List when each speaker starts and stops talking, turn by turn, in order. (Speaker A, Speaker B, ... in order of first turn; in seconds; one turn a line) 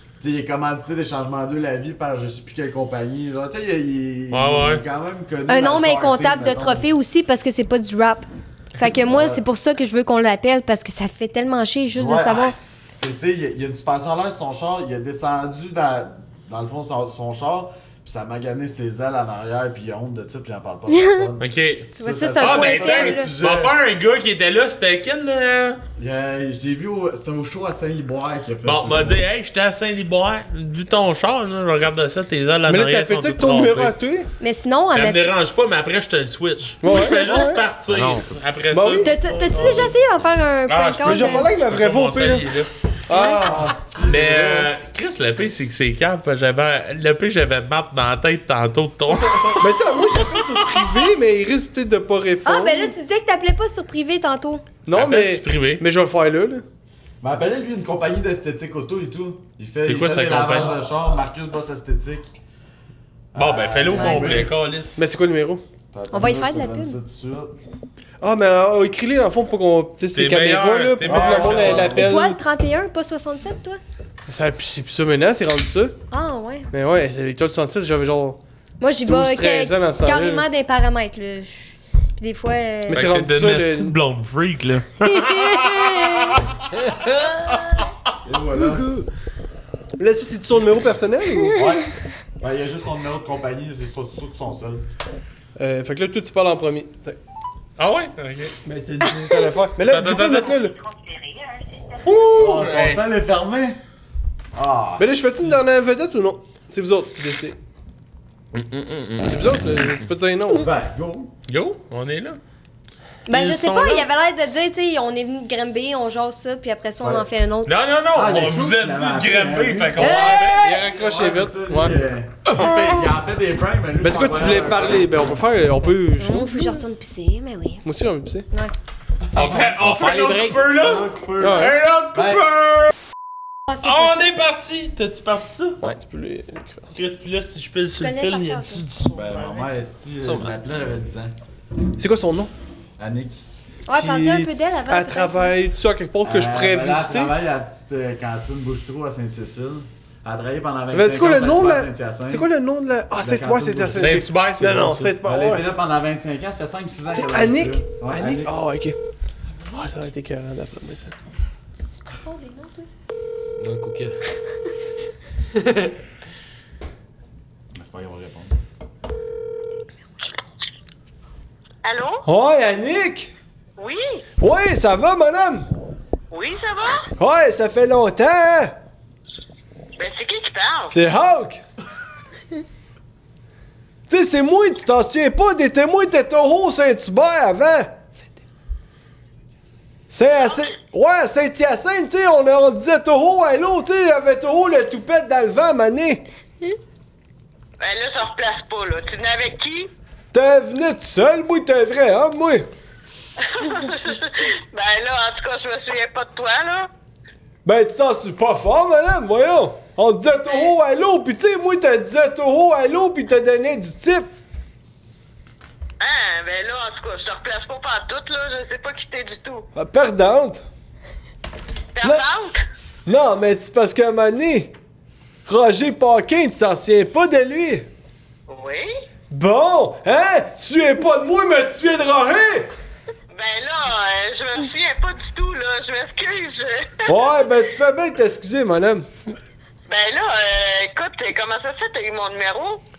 Speaker A: 0.2-6.9
Speaker B: 4.3-4.8
Speaker C: 5.5-12.6
Speaker A: 9.1-9.4
Speaker A: 11.9-23.7
Speaker C: 20.9-21.2
Speaker B: 21.4-21.9
Speaker C: 21.9-23.3
Speaker B: 22.4-25.8
Speaker A: 26.0-29.2
Speaker B: 28.6-33.9
Speaker D: 32.7-34.3
Speaker C: 34.4-35.3
Speaker B: 34.9-39.1
Speaker D: 36.8-37.7
Speaker C: 36.9-37.4
Speaker E: 37.9-38.3
Speaker D: 38.7-39.1
Speaker C: 39.0-41.5
Speaker B: 40.7-42.7
Speaker D: 41.0-42.5
Speaker D: 43.1-44.6
Speaker A: 43.7-44.6
Speaker B: 44.0-49.6
Speaker D: 49.6-52.9
Speaker C: 52.4-54.6
Speaker D: 54.9-56.6
Speaker B: 54.9-55.8
Speaker A: 57.2-62.3
Speaker B: 59.8-60.8
Speaker A: 63.3-64.5
Speaker B: 63.4-65.0
Speaker D: 65.0-65.6
Speaker A: 65.9-67.5
Speaker C: 66.1-67.0
Speaker D: 68.2-72.4
Speaker B: 70.1-71.9
Speaker A: 71.0-72.0
Speaker C: 71.9-73.8
Speaker D: 74.3-76.0
Speaker C: 76.1-76.7
Speaker D: 76.7-78.4
Speaker C: 78.8-83.0
Speaker D: 79.0-80.5
Speaker D: 82.9-84.0
Speaker B: 82.9-86.4
Speaker C: 85.1-86.4
Speaker E: 86.9-87.5
Speaker A: 88.2-89.0
Speaker D: 90.0-91.6
Speaker A: 91.5-91.9
Speaker A: 92.4-94.8
Speaker D: 95.6-97.2
Speaker B: 97.8-98.5
Speaker D: 98.7-100.7
Speaker B: 99.8-100.6
Speaker B: 102.0-103.0
Speaker A: 102.3-103.8
Speaker A: 104.5-105.1
Speaker D: 105.0-107.6
Speaker B: 108.5-109.2
Speaker D: 109.2-110.7
Speaker A: 110.6-111.3
Speaker B: 111.5-112.4
Speaker C: 113.3-117.7
Speaker B: 113.3-114.1
Speaker A: 117.0-117.3
Speaker B: 117.7-120.6
Speaker A: 118.1-125.2
Speaker C: 120.0-120.8
Speaker D: 120.6-122.0
Speaker D: 124.0-126.8
Speaker C: 126.1-127.8
Speaker D: 127.8-128.4
Speaker A: 129.3-129.7
Speaker B: 129.3-132.9
Speaker E: 129.4-130.8
Speaker A: 130.7-132.4
Speaker D: 131.4-131.8
Speaker C: 133.7-134.3
Speaker B: 133.8-135.8
Speaker D: 135.8-136.9
Speaker B: 136.9-139.2
Speaker C: 138.0-138.8
Speaker A: 139.1-141.3
Speaker E: 139.2-139.6
Speaker E: 140.2-140.6
Speaker D: 142.0-142.5
Speaker A: 143.0-143.4
Speaker C: 143.9-145.6
Speaker D: 143.9-147.3
Speaker A: 146.2-152.5
Speaker D: 150.9-155.6
Speaker A: 153.2-154.2
Speaker B: 153.9-155.2
Speaker A: 155.2-158.5
Speaker D: 157.1-159.0
Speaker D: 159.7-161.1
Speaker C: 162.1-162.9
Speaker E: 163.6-164.2
Speaker E: 165.6-165.9
Speaker A: 167.7-168.6
Speaker F: 171.8-172.2
Speaker D: 172.2-173.3
Speaker F: 173.8-174.2
Speaker D: 174.4-175.7
Speaker F: 176.3-177.1
Speaker D: 177.2-178.8
Speaker F: 180.0-180.9
Speaker D: 180.8-181.6
Speaker D: 184.1-188.3
Speaker D: 190.1-196.2
Speaker F: 197.8-199.9
Speaker D: 200.3-202.7
Speaker F: 203.4-206.9
Speaker D: 207.6-214.3
Speaker F: 216.0-219.7
Speaker D: 219.7-220.6
Speaker F: 221.9-222.6
Speaker D: 223.1-224.7
Speaker D: 225.4-227.9
Speaker F: 228.5-228.9
Speaker D: 229.3-232.7
Speaker F: 233.3-237.2
Speaker D: 237.1-239.1
Speaker F: 239.9-242.8